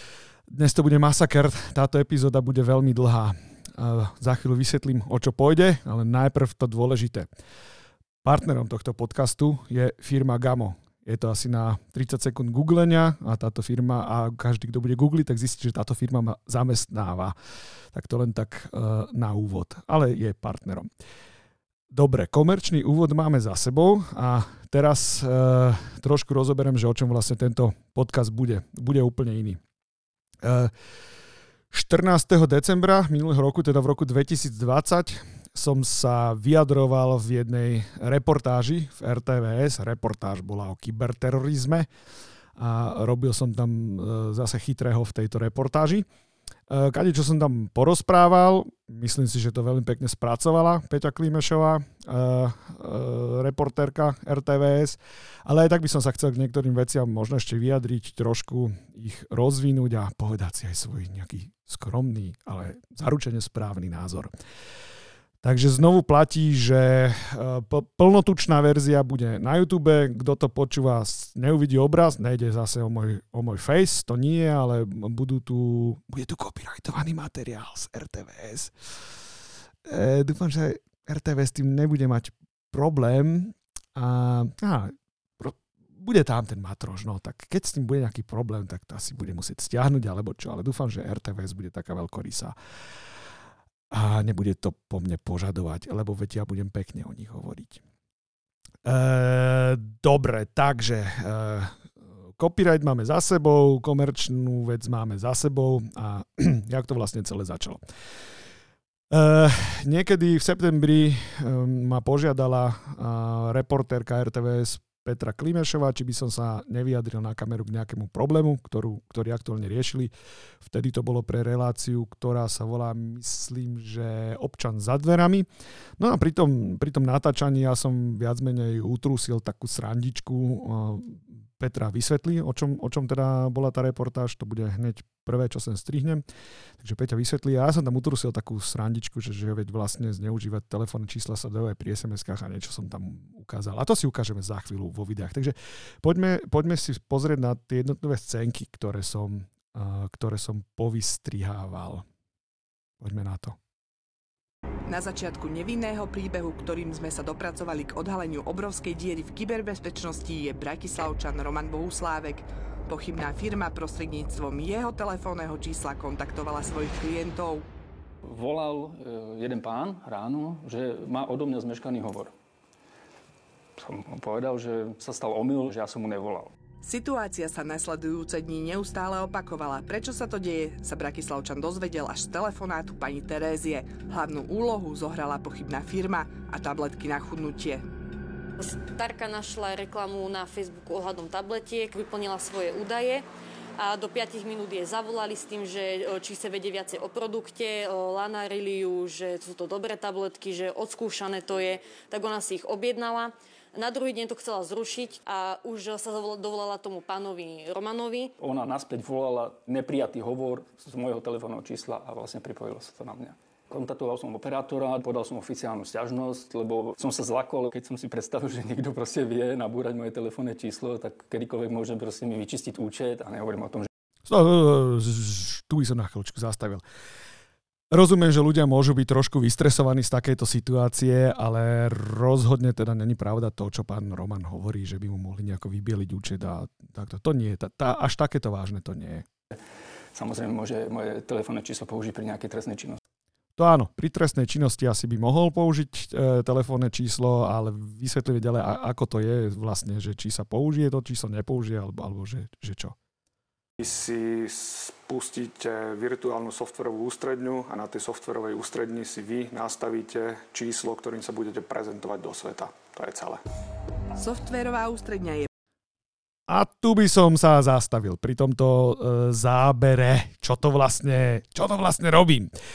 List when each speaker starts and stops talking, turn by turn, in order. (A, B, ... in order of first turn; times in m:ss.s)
0:00.5-0:07.3 A
0:08.2-0:17.4 A
0:17.9-0:20.9 A
0:21.9-0:29.6 A
0:30.4-0:30.7 A
0:31.7-0:41.9 A
0:42.6-0:46.1 A
0:46.7-1:04.3 A
1:05.4-1:18.7 A
1:19.9-1:32.6 A
1:33.9-1:37.8 A
1:38.8-1:47.8 A
1:49.1-2:05.5 A
2:06.0-2:16.2 A
2:16.8-2:32.1 A
2:33.0-2:33.6 A
2:34.9-2:47.7 B
2:48.3-2:52.3 C
2:53.8-2:56.5 C
2:56.8-3:07.8 B
3:08.6-3:13.3 D
3:13.8-3:28.3 D
3:28.4-3:43.9 C
3:44.3-3:46.8 A
3:47.9-3:59.3 A
4:00.1-4:03.0 C
4:03.6-4:13.0 A
4:13.8-4:23.4 E
4:24.2-4:25.5 B
4:26.5-4:32.5 A